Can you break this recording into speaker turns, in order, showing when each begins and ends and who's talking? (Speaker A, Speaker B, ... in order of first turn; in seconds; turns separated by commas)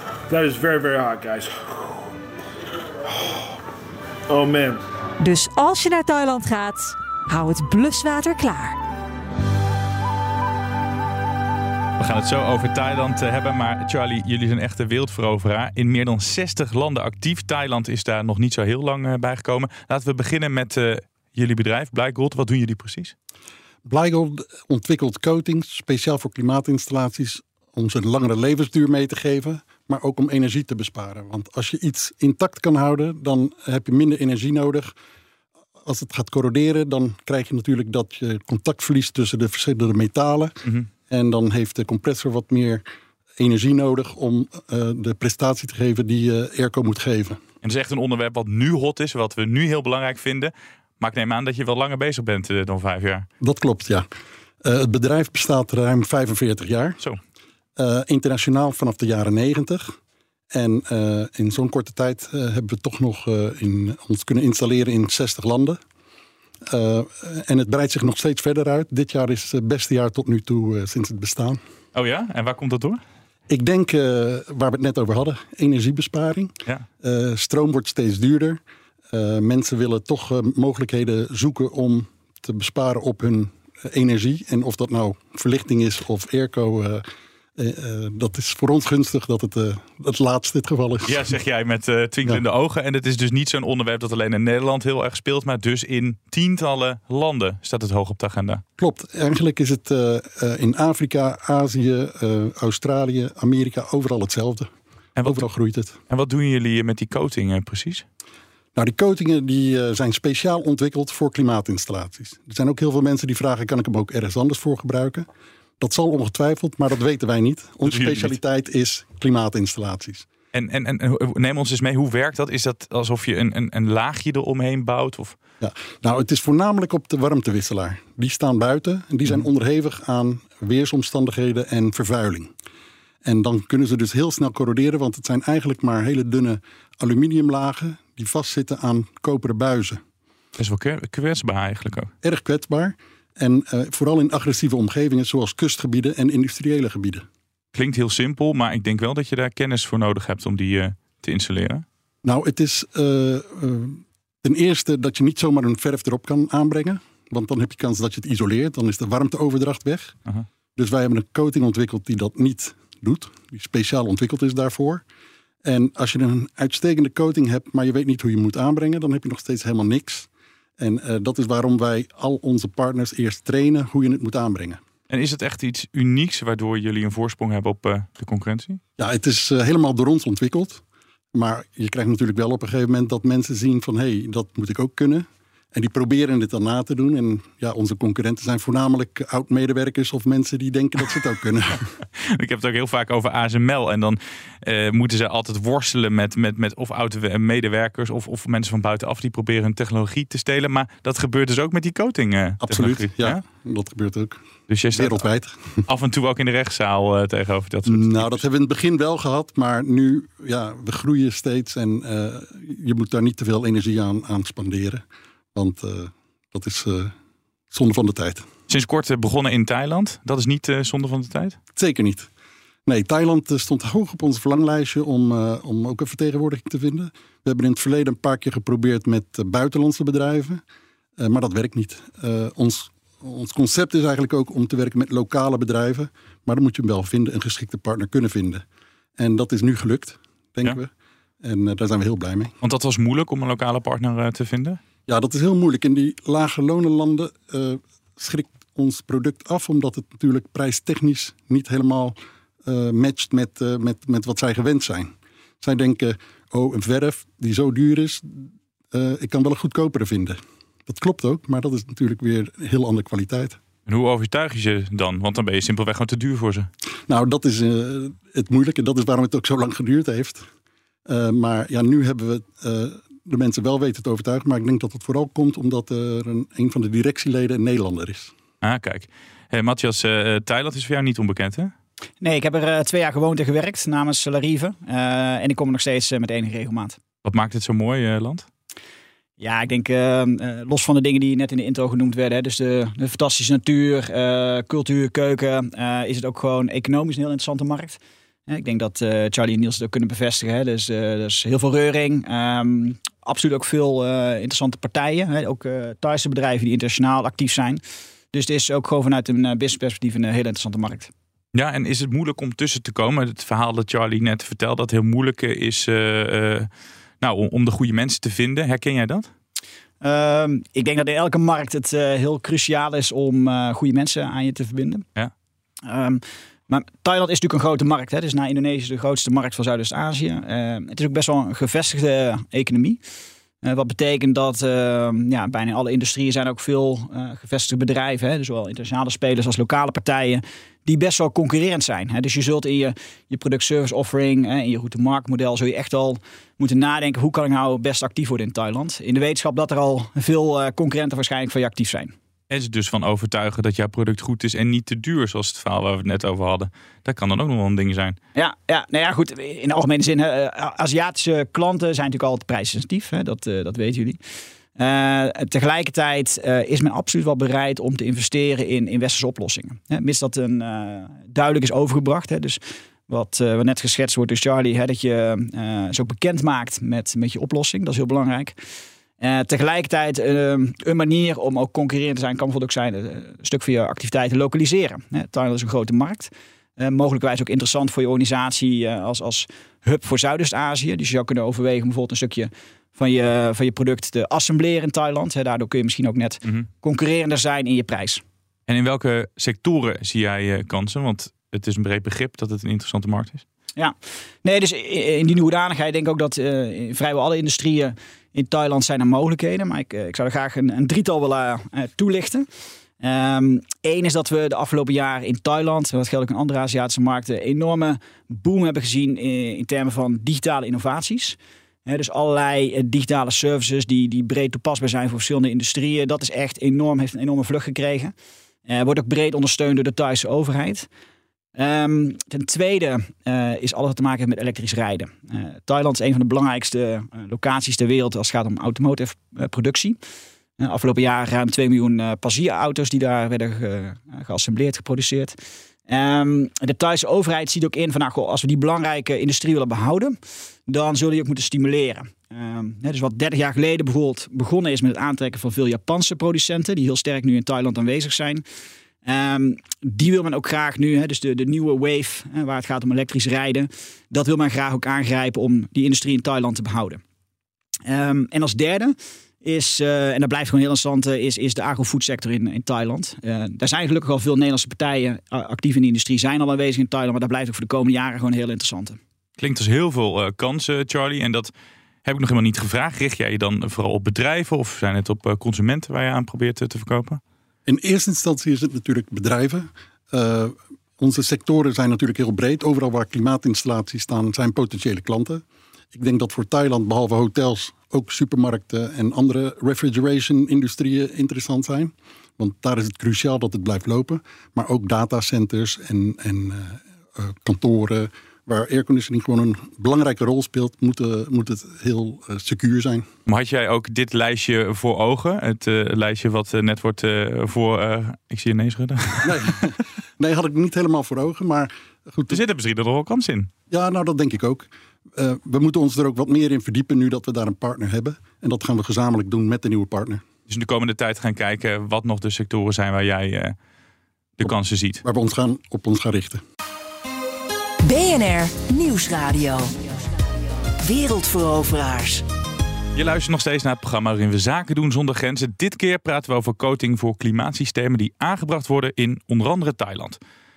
Speaker A: 0.3-2.0, Speaker A: 4.3-4.8, Speaker B: 5.2-8.8, Speaker C: 12.0-23.1, Speaker D: 23.8-34.9, Speaker D: 35.8-42.8, Speaker D: 43.4-47.4, Speaker C: 47.6-53.3, Speaker D: 53.4-54.1, Speaker D: 54.6-57.0, Speaker D: 57.8-60.0, Speaker D: 60.5-65.8, Speaker D: 66.6-71.6, Speaker C: 71.9-73.0, Speaker D: 73.5-78.6, Speaker D: 79.1-87.0, Speaker D: 87.5-91.3, Speaker C: 91.0-98.6, Speaker D: 98.8-104.7, Speaker C: 105.2-105.5, Speaker D: 105.2-106.0, Speaker C: 106.1-108.0, Speaker D: 108.7-115.3, Speaker D: 115.8-120.3, Speaker C: 117.9-118.3, Speaker C: 120.5-125.4, Speaker D: 125.6-132.5, Speaker D: 133.2-140.0, Speaker C: 140.6-142.1, Speaker D: 142.2-147.2, Speaker C: 147.7-151.8, Speaker D: 152.2-160.2, Speaker D: 160.8-165.0, Speaker D: 165.6-174.8, Speaker C: 175.1-178.8, Speaker D: 179.0-180.8, Speaker D: 181.3-191.9, Speaker C: 192.2-203.4, Speaker D: 202.6-204.4, Speaker C: 204.7-205.2, Speaker D: 204.9-205.8, Speaker C: 205.9-208.4, Speaker D: 207.9-215.0, Speaker D: 215.5-217.1, Speaker D: 217.7-218.4, Speaker C: 218.7-221.6, Speaker D: 221.8-222.3, Speaker D: 222.8-230.6, Speaker D: 231.2-238.6, Speaker D: 239.2-240.9, Speaker D: 241.4-242.5, Speaker C: 242.6-244.8, Speaker D: 245.1-263.6, Speaker C: 263.9-266.7, Speaker D: 267.1-270.5, Speaker D: 271.1-278.3, Speaker C: 278.6-281.7, Speaker E: 282.2-287.0, Speaker C: 287.2-288.4, Speaker E: 289.4-307.8, Speaker E: 308.3-311.1, Speaker C: 311.5-316.7, Speaker C: 317.2-319.3, Speaker E: 320.0-325.0, Speaker E: 325.8-333.0, Speaker E: 333.6-352.1, Speaker C: 352.5-358.2, Speaker E: 358.3-364.2, Speaker E: 364.8-378.6, Speaker E: 379.2-398.2, Speaker C: 398.7-403.4, Speaker E: 403.8-412.5, Speaker E: 413.0-428.1, Speaker E: 428.7-430.9, Speaker E: 431.6-440.0, Speaker E: 440.6-445.4, Speaker E: 445.9-450.2, Speaker E: 450.7-458.4, Speaker E: 459.0-467.0, Speaker E: 467.9-479.0, Speaker C: 479.4-481.5, Speaker C: 482.0-487.2, Speaker D: 487.6-495.4, Speaker D: 495.9-513.1, Speaker C: 513.3-519.7, Speaker D: 519.2-522.4, Speaker C: 522.3-523.5, Speaker D: 523.7-530.2, Speaker C: 530.5-533.5, Speaker C: 534.4-535.0, Speaker D: 535.0-536.4, Speaker F: 537.8-539.8, Speaker F: 540.8-542.2, Speaker C: 543.0-550.2